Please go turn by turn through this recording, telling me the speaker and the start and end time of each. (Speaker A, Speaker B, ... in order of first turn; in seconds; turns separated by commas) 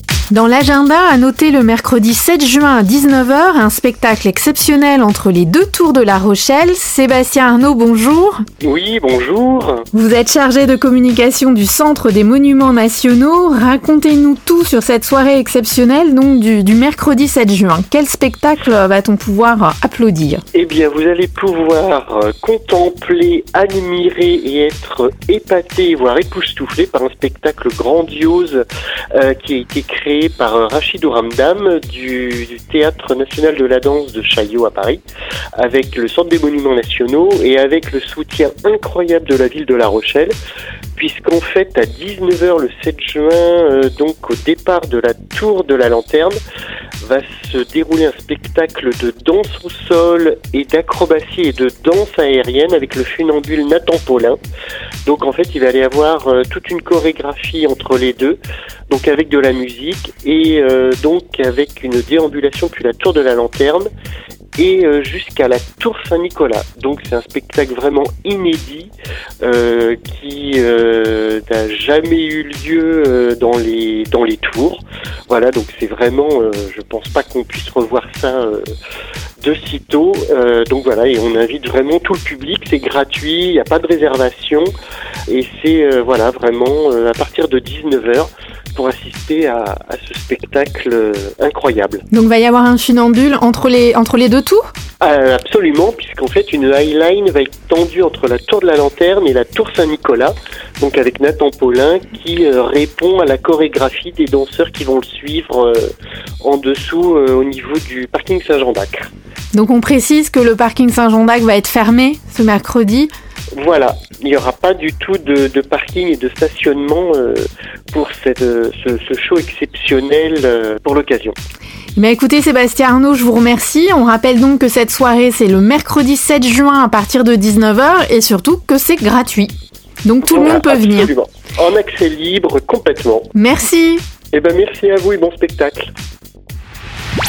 Speaker A: 0.3-8.4, Speaker B: 8.6-9.9, Speaker A: 9.9-20.4, Speaker B: 20.5-35.0, Speaker B: 35.6-40.4, Speaker B: 41.0-46.4, Speaker B: 47.0-54.4, Speaker B: 55.1-58.4, Speaker B: 58.9-63.9, Speaker B: 64.6-78.7, Speaker B: 79.4-84.7, Speaker B: 85.3-92.0, Speaker A: 92.1-94.7, Speaker B: 95.0-109.1, Speaker A: 109.5-113.1, Speaker B: 113.5-121.3, Speaker A: 122.0-129.5, Speaker A: 130.0-131.1, Speaker B: 130.3-133.3, Speaker A: 133.3-134.0, Speaker B: 134.3-135.9